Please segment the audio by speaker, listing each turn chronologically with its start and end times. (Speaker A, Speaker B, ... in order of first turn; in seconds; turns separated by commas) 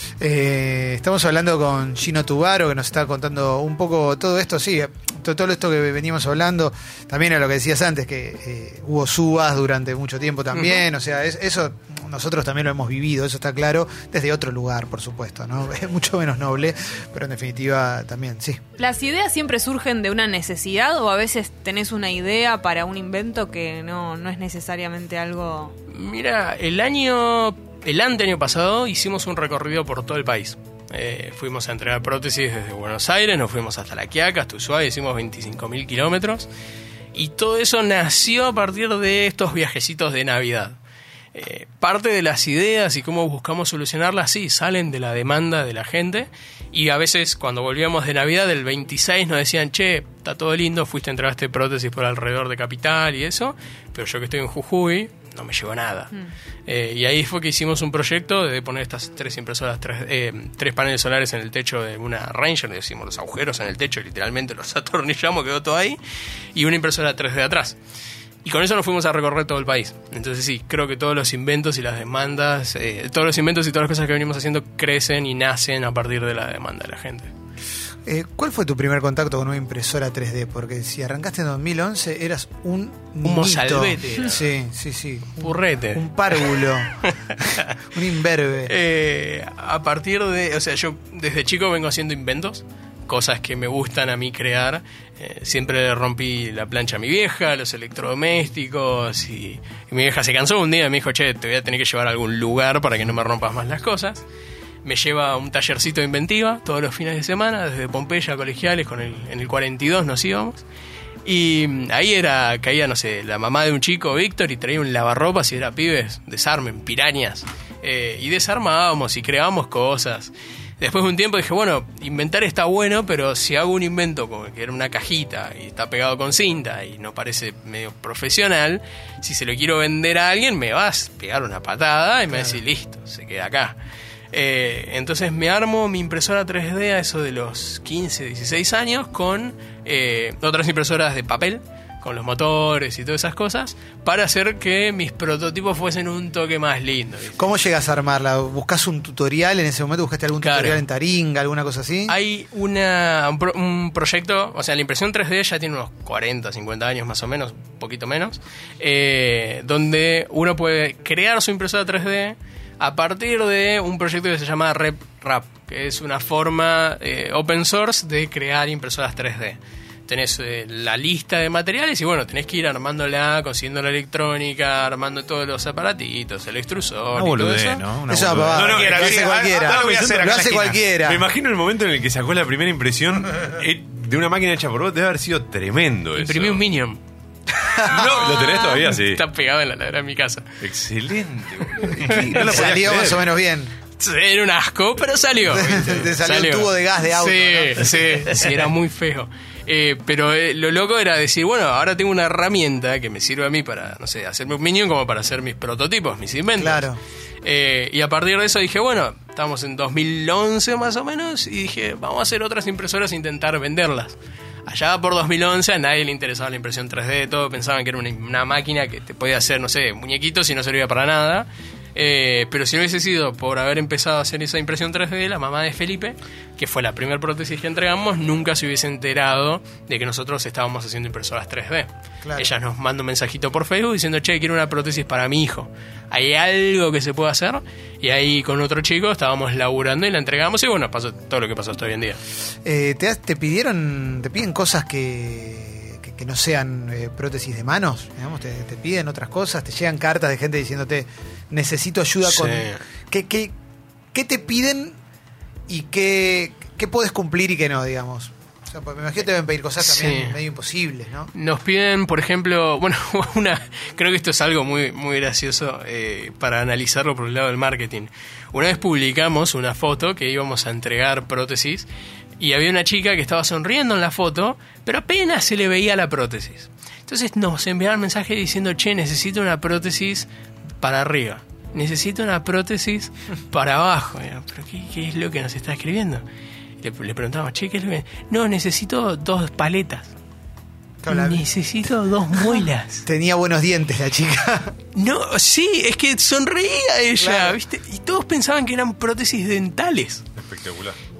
Speaker A: 0.2-18.6, Speaker B: 10.6-10.8, Speaker C: 18.8-25.7, Speaker B: 25.9-36.5, Speaker B: 37.1-40.8, Speaker B: 41.3-56.1, Speaker B: 56.7-66.0, Speaker B: 66.5-67.8, Speaker B: 68.4-77.3, Speaker A: 78.0-87.0, Speaker B: 83.2-84.5, Speaker B: 85.4-86.4, Speaker B: 87.0-87.7, Speaker A: 87.5-88.7, Speaker B: 88.7-104.2, Speaker B: 104.8-110.6, Speaker B: 111.2-133.8, Speaker B: 134.3-147.5, Speaker A: 147.4-152.1, Speaker B: 150.4-150.8, Speaker B: 152.1-177.9, Speaker D: 177.1-180.8, Speaker A: 178.1-181.2, Speaker E: 178.4-180.4, Speaker E: 181.0-186.6, Speaker B: 186.1-187.0, Speaker A: 187.6-187.9, Speaker E: 187.8-189.2, Speaker B: 187.9-190.6, Speaker E: 190.6-193.3, Speaker B: 191.8-192.7, Speaker A: 191.9-193.7, Speaker B: 194.0-206.9, Speaker A: 195.5-198.4, Speaker A: 206.6-207.0, Speaker B: 207.4-242.2, Speaker A: 232.2-232.5, Speaker A: 242.6-253.5, Speaker B: 252.2-252.8, Speaker A: 254.1-255.0, Speaker A: 255.7-261.3, Speaker B: 259.8-260.4, Speaker B: 261.3-271.9, Speaker B: 272.4-280.3, Speaker B: 280.8-286.2, Speaker B: 286.8-290.1, Speaker A: 291.0-291.5, Speaker B: 291.1-293.0, Speaker A: 293.1-294.7, Speaker B: 294.9-300.2, Speaker A: 297.2-297.6, Speaker E: 300.3-300.9